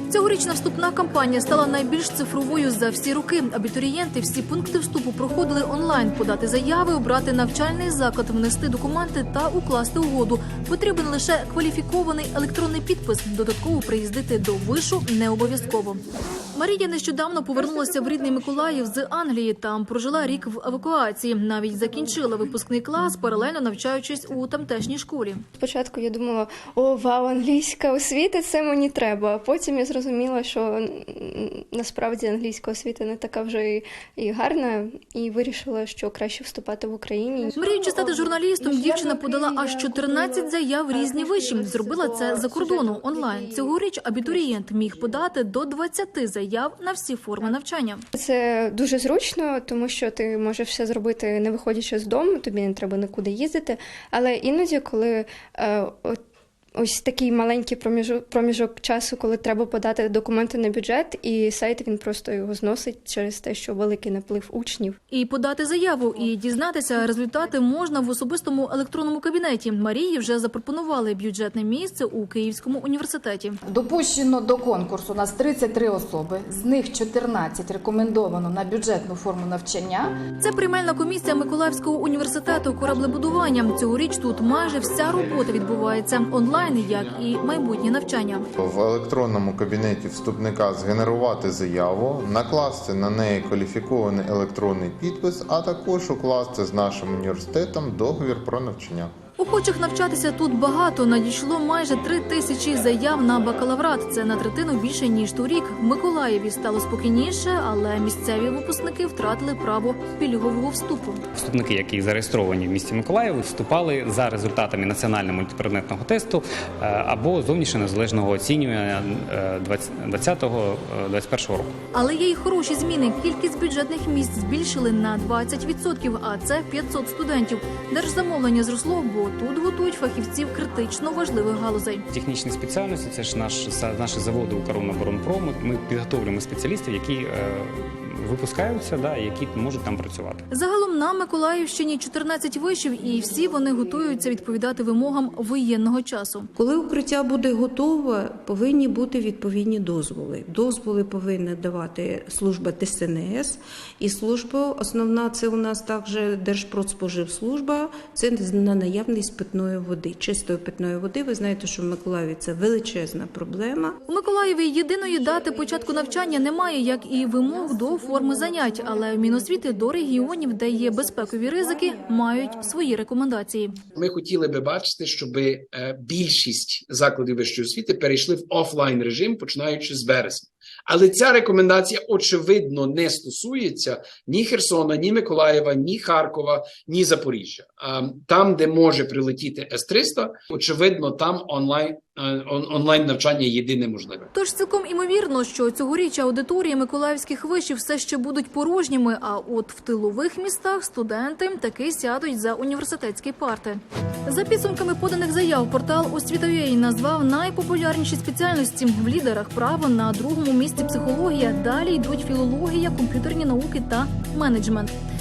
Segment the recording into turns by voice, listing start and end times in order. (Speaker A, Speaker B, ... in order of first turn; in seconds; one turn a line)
Speaker A: 0.1-16.0
Speaker A: 16.6-25.4
Speaker B: 25.6-37.7
Speaker A: 37.6-48.0
Speaker B: 39.1-39.6
Speaker B: 41.3-43.7
Speaker B: 48.1-56.2
Speaker B: 56.8-65.0
Speaker A: 65.1-73.6
Speaker C: 73.7-80.2
Speaker A: 80.4-88.5
Speaker D: 88.6-99.1
Speaker A: 99.4-111.2
Speaker E: 111.4-121.7
Speaker A: 121.9-132.0
Speaker E: 132.1-140.4
Speaker A: 140.5-146.5
Speaker F: 146.6-164.0
Speaker A: 164.1-173.7
Speaker F: 167.7-172.8
Speaker G: 173.9-194.3
Speaker A: 194.3-214.9